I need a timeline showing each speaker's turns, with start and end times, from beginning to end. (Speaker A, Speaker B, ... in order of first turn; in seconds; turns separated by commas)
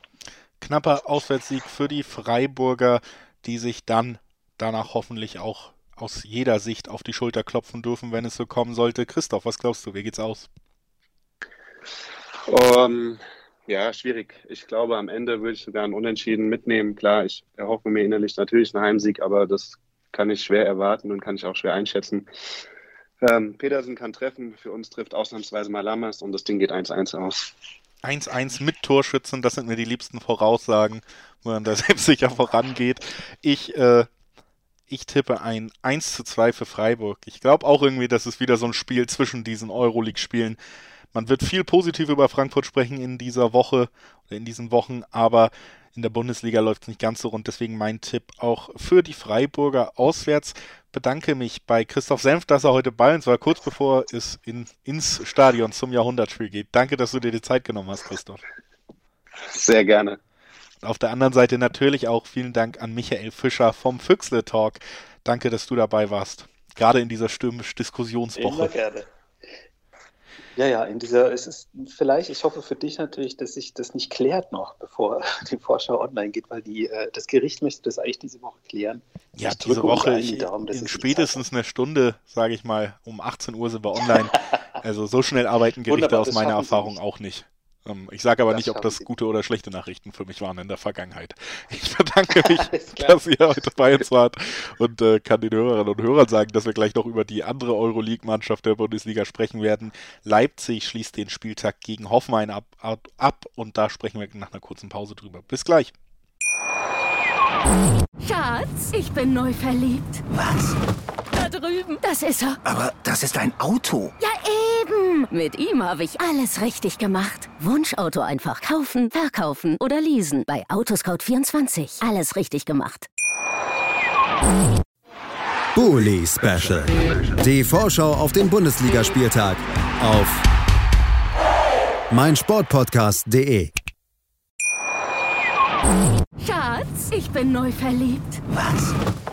Speaker A: 0.6-10.5, Speaker B: 12.5-22.3, Speaker B: 23.2-27.5, Speaker A: 28.0-34.1, Speaker A: 34.9-40.6, Speaker A: 41.1-58.4, Speaker B: 59.5-60.2, Speaker A: 60.8-68.7, Speaker C: 68.3-69.1, Speaker C: 70.5-81.4, Speaker A: 79.4-105.9, Speaker C: 85.9-87.0, Speaker C: 88.5-89.1, Speaker C: 92.4-93.2, Speaker D: 108.2-110.2, Speaker E: 110.3-110.7, Speaker D: 111.3-112.6, Speaker E: 112.6-114.1, Speaker D: 114.2-123.0, Speaker F: 125.8-130.4, Speaker F: 132.1-133.7, Speaker D: 136.4-138.4, Speaker E: 138.5-138.9